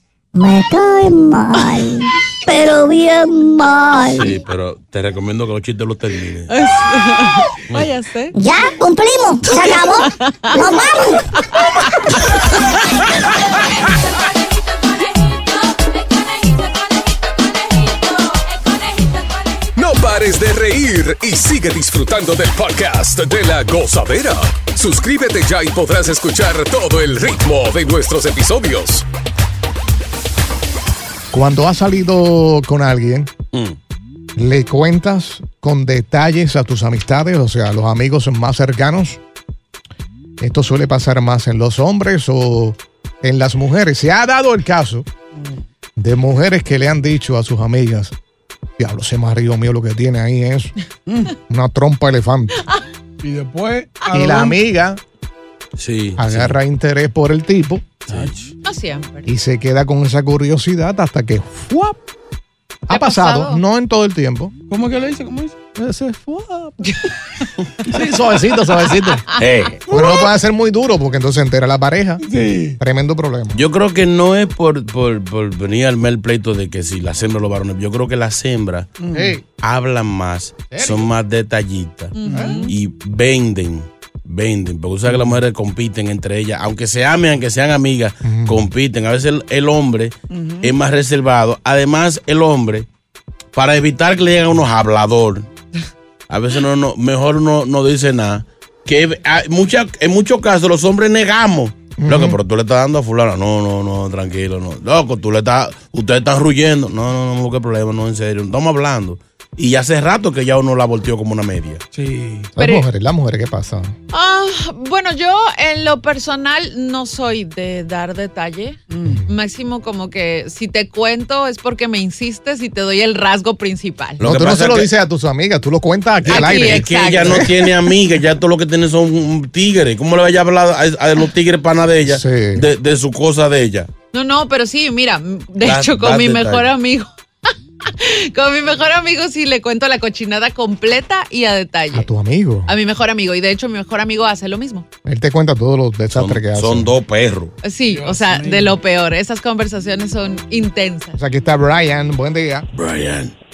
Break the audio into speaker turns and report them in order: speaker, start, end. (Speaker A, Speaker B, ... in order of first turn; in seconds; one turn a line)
Speaker A: 0.3-4.3
Speaker B: 4.1-6.6
Speaker C: 6.5-8.3
Speaker A: 8.4-11.3
Speaker C: 9.6-10.7
Speaker D: 19.8-29.1
Speaker E: 31.3-33.3
Speaker E: 34.4-39.2
Speaker E: 40.4-45.1
Speaker E: 46.0-48.1
Speaker E: 48.8-50.7
Speaker F: 51.1-51.3
Speaker E: 51.5-52.6
Speaker F: 53.2-54.6
Speaker E: 54.1-55.0
Speaker B: 55.8-56.6
Speaker E: 56.2-58.0
Speaker B: 58.1-58.4
Speaker F: 58.1-58.5
Speaker C: 58.6-59.3
Speaker E: 59.2-62.0
Speaker E: 62.9-64.5
Speaker C: 62.9-63.6
Speaker F: 64.7-65.6
Speaker E: 65.8-66.8
Speaker C: 66.8-67.1
Speaker E: 67.9-69.2
Speaker B: 69.4-69.8
Speaker F: 69.9-70.2
Speaker E: 69.9-73.6
Speaker F: 72.2-72.8
Speaker B: 73.5-79.0
Speaker F: 79.0-79.4
Speaker E: 79.1-79.4
Speaker B: 79.6-92.9
Speaker E: 80.7-81.1
Speaker C: 82.2-82.7
Speaker F: 82.3-82.6
Speaker E: 82.3-82.7
Speaker E: 88.2-88.7
Speaker F: 90.3-90.7
Speaker B: 93.5-95.5
Speaker B: 96.3-111.8
Speaker E: 102.0-102.4
Speaker F: 111.9-112.5
Speaker E: 112.6-114.0
Speaker C: 112.6-112.8
Speaker C: 114.1-124.2
Speaker F: 118.9-119.2
Speaker B: 124.2-124.9
Speaker E: 124.2-127.7
Speaker B: 126.2-133.9
Speaker C: 126.3-127.5
Speaker E: 132.1-132.7
Speaker C: 134.1-137.1
Speaker B: 135.6-136.7
Speaker C: 137.9-142.1
Speaker E: 141.9-142.7
Speaker C: 142.7-144.9
Speaker E: 145.1-146.9
Speaker B: 146.1-147.5
Speaker C: 147.6-151.2
Speaker F: 147.9-148.8
Speaker E: 151.2-152.7
Speaker B: 152.7-153.3